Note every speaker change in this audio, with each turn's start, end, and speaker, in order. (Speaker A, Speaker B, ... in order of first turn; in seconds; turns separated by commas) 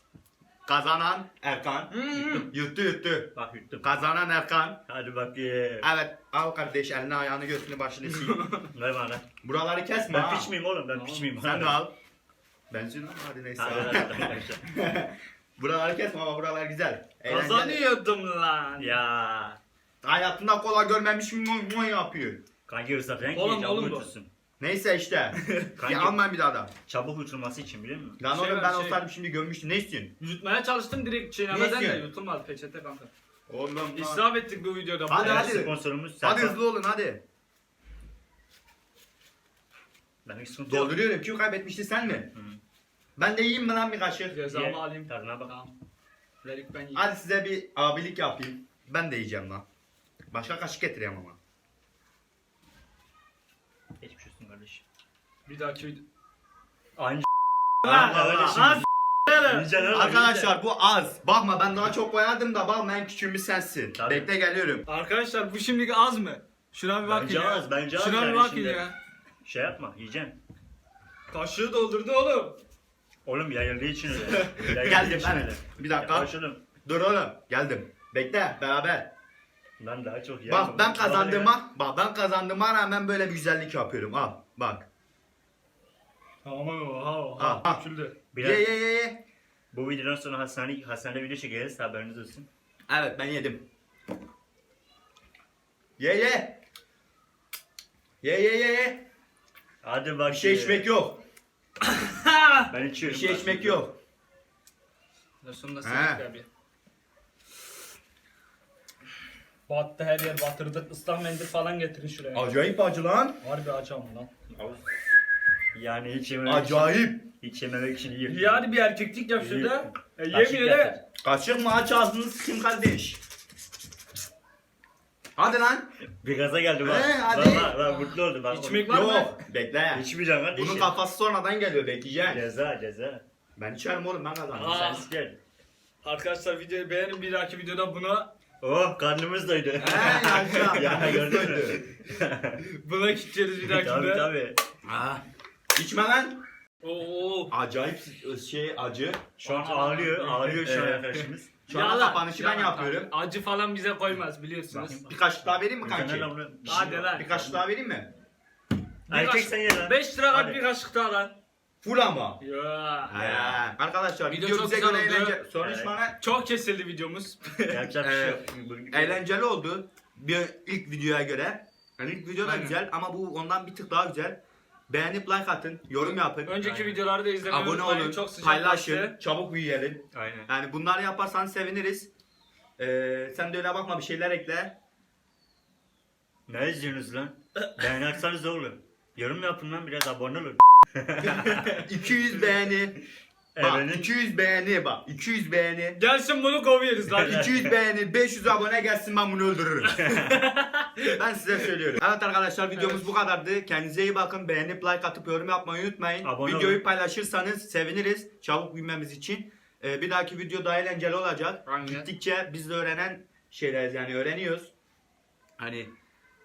Speaker A: 0.7-4.8, Speaker B: 1.9-2.5, Speaker C: 2.2-2.4, Speaker C: 3.3-4.0, Speaker C: 4.9-5.9, Speaker A: 5.8-8.5, Speaker B: 8.1-8.7, Speaker C: 8.7-9.2, Speaker A: 9.4-10.5, Speaker C: 10.1-11.8, Speaker B: 10.9-11.2, Speaker A: 11.3-11.9, Speaker A: 12.7-17.8, Speaker C: 13.6-14.6, Speaker B: 17.2-19.0, Speaker C: 18.8-19.6, Speaker A: 20.0-22.4, Speaker C: 22.7-24.3, Speaker B: 23.3-24.1, Speaker A: 24.6-26.7, Speaker B: 25.4-25.7, Speaker C: 25.8-26.2, Speaker C: 26.9-28.2, Speaker A: 28.2-30.1, Speaker B: 28.3-29.0, Speaker B: 30.2-33.1, Speaker A: 31.5-32.1, Speaker A: 33.5-34.3, Speaker B: 33.9-35.6, Speaker A: 35.1-37.2, Speaker C: 35.2-36.6, Speaker C: 40.2-41.0, Speaker A: 40.7-42.3, Speaker C: 42.3-42.6, Speaker A: 43.2-44.4, Speaker B: 44.3-45.7, Speaker C: 44.5-45.5, Speaker B: 46.4-47.0, Speaker A: 46.9-49.6, Speaker A: 50.3-51.4, Speaker C: 54.0-54.8, Speaker B: 55.5-56.0, Speaker C: 57.0-57.3, Speaker A: 57.8-58.8, Speaker C: 57.8-60.5, Speaker B: 57.9-59.6, Speaker A: 59.8-64.8, Speaker C: 64.0-64.3, Speaker B: 64.9-68.9, Speaker C: 67.0-68.9, Speaker C: 69.4-70.4, Speaker B: 71.3-72.6, Speaker C: 73.2-76.6, Speaker A: 74.5-79.1, Speaker C: 79.8-81.5, Speaker A: 80.5-84.8, Speaker B: 86.4-88.1, Speaker A: 87.4-87.8, Speaker C: 88.3-88.7, Speaker A: 88.4-89.2, Speaker C: 89.7-92.5, Speaker A: 92.9-93.6, Speaker A: 96.0-96.6, Speaker A: 98.2-99.0, Speaker C: 99.8-100.9, Speaker A: 100.3-101.2, Speaker B: 101.8-102.7, Speaker C: 102.7-103.8, Speaker A: 103.0-104.0, Speaker B: 105.4-106.5, Speaker A: 105.8-106.2, Speaker B: 109.7-112.5, Speaker A: 112.3-113.4, Speaker B: 113.4-114.3, Speaker C: 114.5-114.8, Speaker C: 115.7-118.7, Speaker A: 116.4-117.3, Speaker B: 118.3-121.0, Speaker C: 119.3-121.0, Speaker A: 121.2-123.2, Speaker A: 125.3-125.9, Speaker C: 126.2-129.0, Speaker A: 126.8-127.8, Speaker B: 128.5-129.4, Speaker A: 128.9-132.4, Speaker C: 129.9-130.9, Speaker C: 132.2-133.2, Speaker A: 133.6-134.8, Speaker C: 134.5-135.4, Speaker B: 134.5-135.1, Speaker B: 136.0-138.3, Speaker C: 138.6-142.6, Speaker A: 139.8-141.8, Speaker B: 140.0-140.8, Speaker B: 142.6-144.3, Speaker C: 143.6-144.6, Speaker A: 144.8-145.2, Speaker A: 145.7-146.4, Speaker B: 146.8-147.5, Speaker A: 147.5-149.3, Speaker C: 149.4-151.5, Speaker B: 149.4-150.8, Speaker A: 150.6-151.1, Speaker A: 151.7-153.1, Speaker B: 151.7-155.0, Speaker C: 154.7-155.2, Speaker A: 155.1-158.1, Speaker C: 155.8-157.6, Speaker B: 156.7-157.3, Speaker C: 159.1-160.6, Speaker B: 159.1-161.4, Speaker A: 161.8-162.4, Speaker B: 162.4-163.2, Speaker A: 163.1-166.2, Speaker C: 163.1-163.6, Speaker B: 164.3-165.4, Speaker C: 165.6-165.9, Speaker B: 166.2-167.8, Speaker C: 167.7-169.2, Speaker A: 168.0-174.4, Speaker C: 172.4-172.8, Speaker A: 174.9-176.6, Speaker B: 176.1-179.2, Speaker C: 176.6-177.0, Speaker A: 177.4-182.1, Speaker C: 180.1-180.5, Speaker A: 182.8-184.7, Speaker C: 186.5-191.7, Speaker A: 191.2-193.0, Speaker B: 191.4-191.8, Speaker C: 193.5-194.1, Speaker A: 193.6-196.0, Speaker B: 195.9-197.5, Speaker A: 197.2-199.9, Speaker C: 197.2-197.7, Speaker B: 199.9-201.2, Speaker C: 200.0-200.4, Speaker A: 201.1-214.7, Speaker C: 206.2-206.8, Speaker B: 211.7-212.1, Speaker A: 215.6-215.9